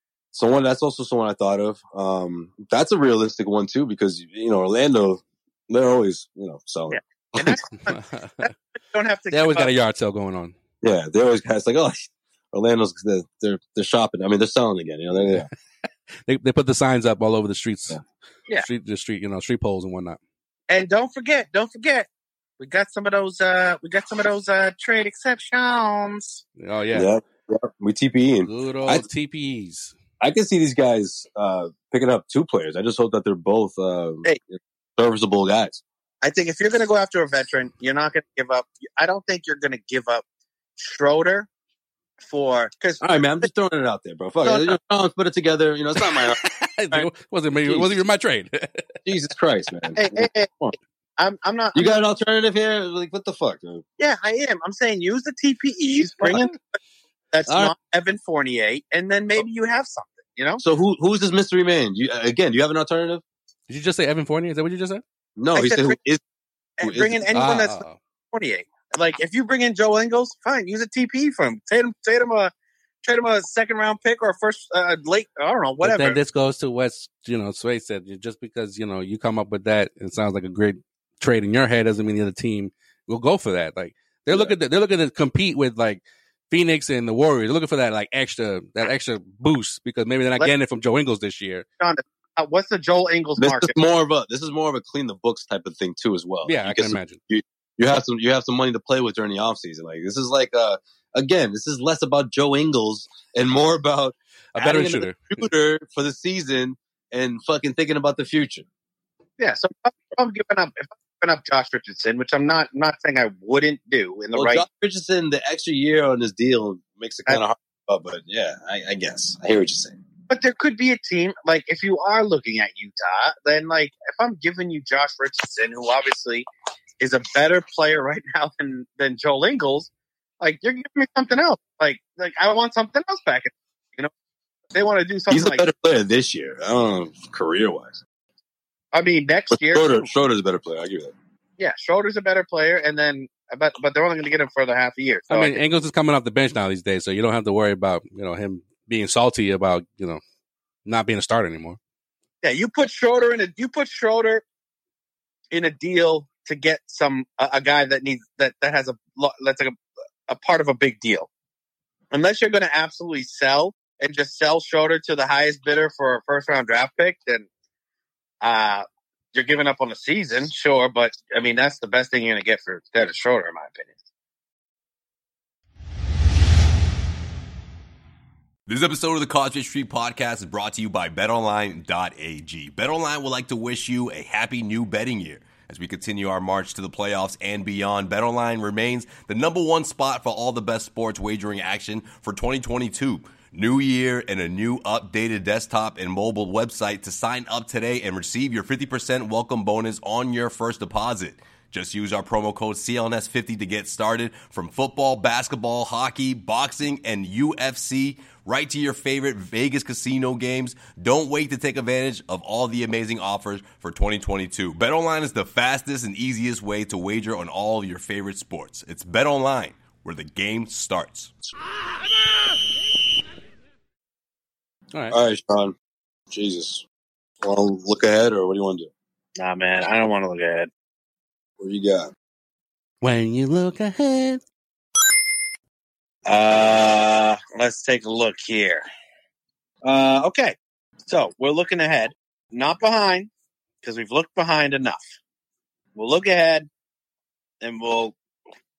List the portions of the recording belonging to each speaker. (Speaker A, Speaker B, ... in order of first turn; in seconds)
Speaker A: 0.3-7.6, 10.8-15.5, 26.9-29.1, 30.2-35.8, 43.0-46.4, 47.6-48.0, 49.1-50.8, 51.7-53.8, 57.5-57.7, 60.6-63.2, 65.4-66.2, 66.8-67.2, 93.4-108.6, 114.3-120.0, 135.3-138.0, 139.5-141.1, 225.1-225.7, 226.3-226.8, 227.4-228.9, 231.6-232.1
Speaker B: 6.9-9.7, 20.7-22.1, 22.6-26.4, 36.2-40.2, 40.8-41.5, 42.2-43.5, 44.4-44.8, 50.0-50.5, 51.2-52.0, 54.0-56.8, 57.3-60.6, 65.5-66.0, 66.8-72.5, 73.0-76.2, 91.8-93.7, 109.4-114.6, 120.3-126.5, 127.0-129.9, 130.4-134.1, 134.7-135.7, 138.9-140.1, 141.6-145.6, 152.4-154.4, 155.5-159.8, 160.3-161.3, 162.1-167.5, 168.4-173.9, 229.4-230.7, 236.2-238.8, 239.8-240.6, 241.1-243.3, 243.8-245.0, 245.9-246.7, 247.6-248.2
Speaker C: 7.9-8.5, 9.3-10.6, 16.2-18.0, 18.6-20.2, 26.6-27.1, 28.4-29.9, 46.0-49.1, 63.7-65.0, 67.3-68.0, 75.8-91.7, 96.4-97.2, 104.5-105.5, 145.3-150.2, 150.8-151.8, 233.0-234.4
Speaker D: 178.7-221.3